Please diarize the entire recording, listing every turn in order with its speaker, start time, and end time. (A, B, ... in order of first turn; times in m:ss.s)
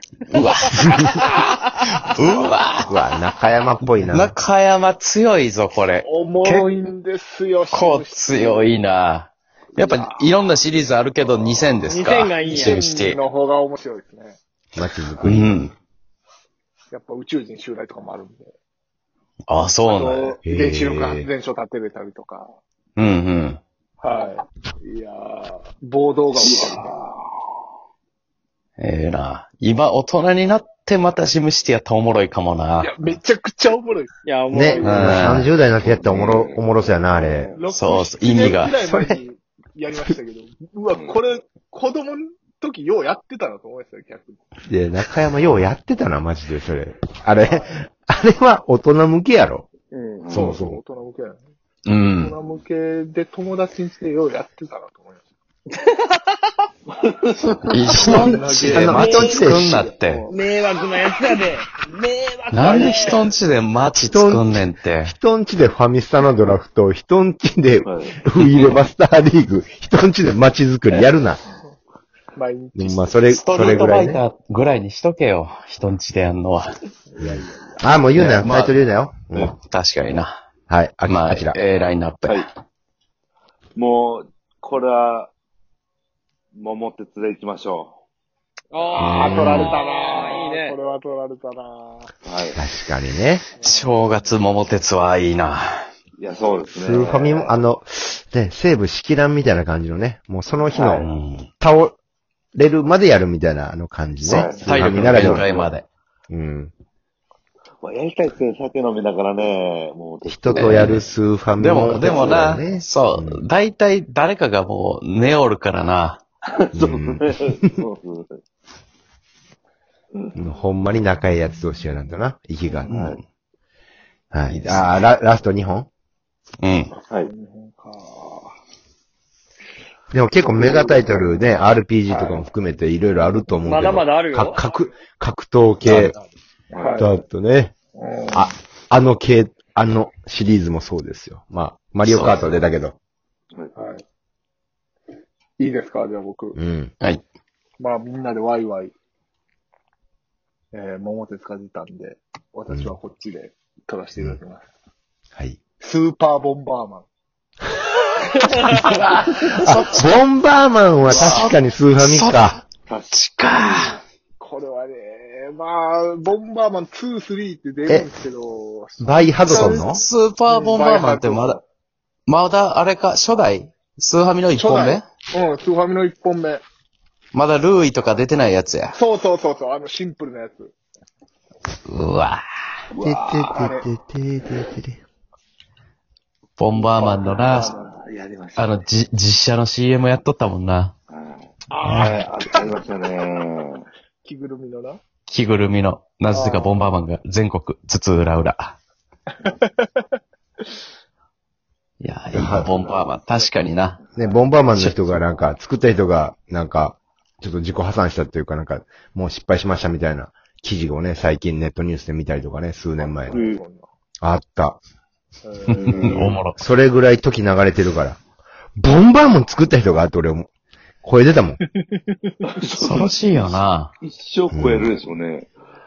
0:00.3-0:01.4 A
0:00.8-0:01.9 B
0:02.0-0:03.0 A
0:02.8-0:04.3 C
0:03.8-0:06.7 A
0:06.0-0:08.8 D
0:07.7-0:13.2 A
0:11.8-0:12.8 B
0:12.5-0:14.4 D
0:14.8-0:15.5 C
0:15.2-0:15.7 A
0:16.9-0:18.5 D
0:19.5-0:20.4 A
0:19.8-0:22.5 D
0:20.4-0:21.3 C
0:23.0-0:23.6 A
0:24.0-0:26.9 D
0:26.4-0:27.3 E
0:28.8-0:33.1 A
0:32.8-0:34.1 D
0:34.2-0:35.5 B
0:34.5-0:37.6 C
0:34.8-0:35.5 A
0:35.8-0:36.5 E
0:36.2-0:36.6 B
0:37.2-0:37.6 B
0:37.5-0:44.4 D
0:37.7-0:38.7 A
0:38.4-0:39.2 C
0:44.7-0:49.7 C
0:47.4-0:47.7 D
0:49.9-0:50.5 E
0:50.3-0:50.8 C
0:50.3-0:51.4 D
0:51.8-0:52.4 A
0:52.2-0:55.2 D
0:57.7-1:00.2 A
0:58.0-0:59.5 B
0:58.0-1:00.4 D
0:58.1-0:59.8 C
1:00.3-1:03.3 B
1:02.5-1:05.1 A
1:04.0-1:11.4 C
1:07.8-1:08.2 E
1:08.4-1:08.7 A
1:12.4-1:14.2 D
1:12.8-1:14.2 C
1:13.3-1:16.7 A
1:17.1-1:17.9 D
1:17.2-1:19.5 C
1:18.2-1:18.7 A
1:19.3-1:20.4 A
1:20.7-1:21.6 C
1:21.0-1:22.5 A
1:23.8-1:25.3 E
1:26.5-1:28.0 E
1:28.7-1:30.8 B
1:29.0-1:29.8 A
1:29.0-1:32.1 D
1:29.2-1:29.7 C
1:32.2-1:32.6 E
1:32.5-1:33.4 C
1:33.6-1:34.2 D
1:33.6-1:35.7 A
1:36.2-1:37.4 E
1:36.7-1:41.1 C
1:40.7-1:41.1 E
1:41.0-1:41.5 A
1:41.6-1:41.9 C
1:42.5-1:45.5 C
1:44.2-1:45.9 A
1:44.2-1:45.7 E
1:46.3-1:46.7 C
1:47.8-1:51.0 E
1:50.2-1:53.4 C
1:50.5-1:51.0 A
1:51.6-1:56.2 A
1:52.0-1:52.6 E
1:56.5-1:58.4 E
1:56.7-1:57.8 C
2:00.4-2:02.9 C
2:02.8-2:03.2 E
2:02.9-2:03.2 A
2:04.3-2:05.9 C
2:04.5-2:04.9 A
2:06.6-2:06.9 A
2:06.9-2:08.5 D
2:10.1-2:16.2 C
2:10.4-2:11.3 E
2:13.5-2:14.6 B
2:15.8-2:16.1 A
2:16.7-2:17.0 E
2:16.8-2:17.2 D
2:17.0-2:17.7 C
2:17.9-2:18.5 D
2:18.3-2:23.0 C
2:22.0-2:22.5 A
2:23.8-2:24.0 D
2:25.6-2:26.6 D
2:26.6-2:26.9 C
2:27.8-2:28.9 D
2:30.7-2:34.7 D
2:35.8-2:37.0 D
2:38.6-2:38.8 B
2:38.6-2:39.5 D
2:39.6-2:42.6 C
2:41.2-2:42.4 A
2:42.9-2:44.0 E
2:43.1-2:44.0 A
2:44.4-2:49.9 D
2:49.0-2:50.0 C
2:49.5-2:51.6 A
2:50.5-2:51.6 D
2:52.3-2:55.0 A
2:54.6-2:56.6 D
2:57.3-2:59.0 A
2:58.9-3:00.7 D
3:01.9-3:02.4 A
3:02.9-3:03.9 D
3:03.0-3:05.0 C
3:06.6-3:07.7 A
3:06.9-3:07.9 D
3:07.0-3:08.8 E
3:08.6-3:10.9 A
3:11.1-3:13.8 E
3:11.7-3:12.8 D
3:14.2-3:15.0 D
3:15.3-3:18.8 A
3:16.3-3:16.8 D
3:19.4-3:20.0 D
3:22.0-3:24.0 A
3:22.3-3:22.7 C
3:22.6-3:23.1 E
3:24.2-3:33.4 C
3:24.7-3:25.2 A
3:33.0-3:33.9 D
3:33.3-3:33.6 E
3:34.2-3:34.8 C
3:35.4-3:36.2 D
3:35.7-3:36.4 E
3:35.9-3:36.7 A
3:36.0-3:38.2 C
3:38.8-3:40.5 C
3:41.0-3:41.6 C
3:42.4-3:45.5 E
3:42.8-3:43.9 A
3:44.5-3:44.9 C